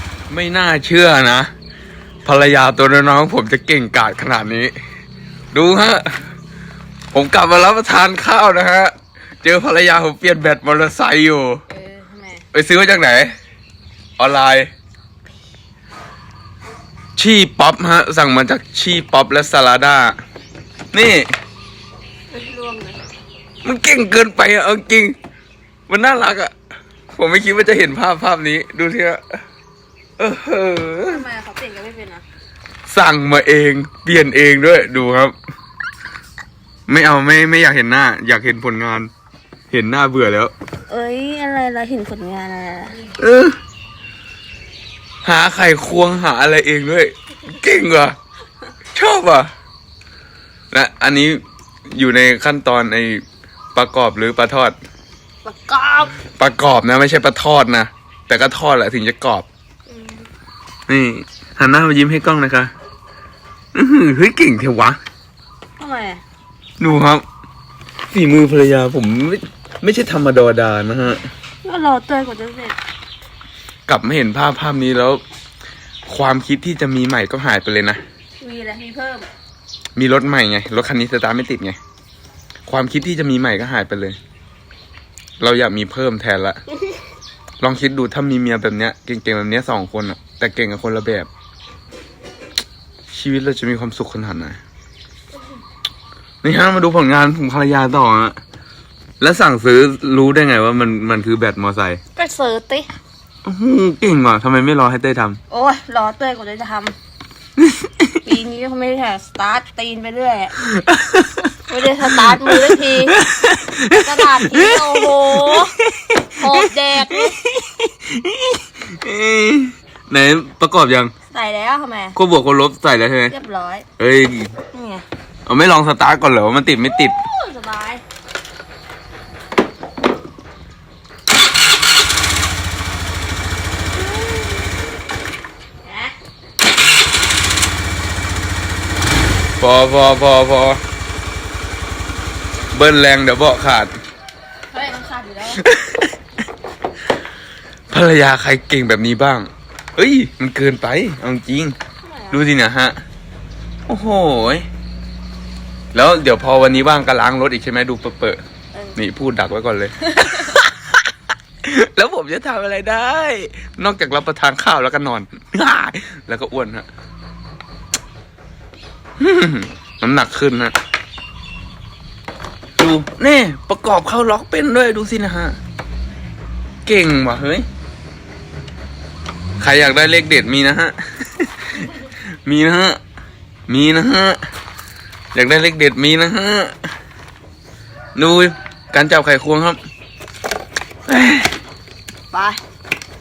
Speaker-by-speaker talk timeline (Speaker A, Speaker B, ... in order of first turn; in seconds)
Speaker A: 0.3-1.5, 2.2-4.7, 5.5-6.2, 7.1-11.6, 12.5-13.3, 14.2-14.7, 17.2-20.2, 20.9-21.3, 23.6-25.1, 25.9-26.5, 27.1-29.4, 30.2-31.2, 32.9-35.4, 36.9-39.1, 39.7-40.5, 43.2-43.6, 45.2-48.2, 48.9-49.5, 50.7-54.8, 56.4-59.5, 60.9-62.7, 63.7-65.0, 66.8-67.2, 68.1-71.2, 73.9-75.2, 76.1-78.0, 80.0-81.8, 82.7-84.2, 85.4-86.6, 87.6-91.3, 93.1-94.6, 96.4-98.4, 99.2-102.0, 103.5-105.4, 110.6-111.5, 112.1-121.1, 122.2-123.3, 124.0-124.5, 125.5-127.2, 139.6-140.8, 142.7-143.9, 145.6-146.1, 147.9-151.8, 152.3-153.0, 153.9-154.7, 155.9-158.4, 159.0-160.9, 161.6-166.9, 169.2-170.8, 172.8-175.6, 176.9-177.7, 179.6-183.0, 183.7-184.4, 185.3-186.8, 188.2-189.8, 191.1-191.5
Speaker B: 11.7-12.4, 22.3-23.0, 31.1-32.2, 40.9-43.0, 55.4-56.2, 59.9-60.2, 65.8-66.2, 71.6-72.8, 78.4-79.3, 102.2-102.9, 105.5-107.0, 108.2-110.6, 111.7-113.2, 113.9-115.8, 116.4-117.4, 121.3-122.2, 123.3-123.9, 124.7-125.0, 127.1-128.0, 134.1-134.7, 135.8-136.1, 144.7-145.6, 152.0-152.4, 160.1-160.5, 192.3-192.6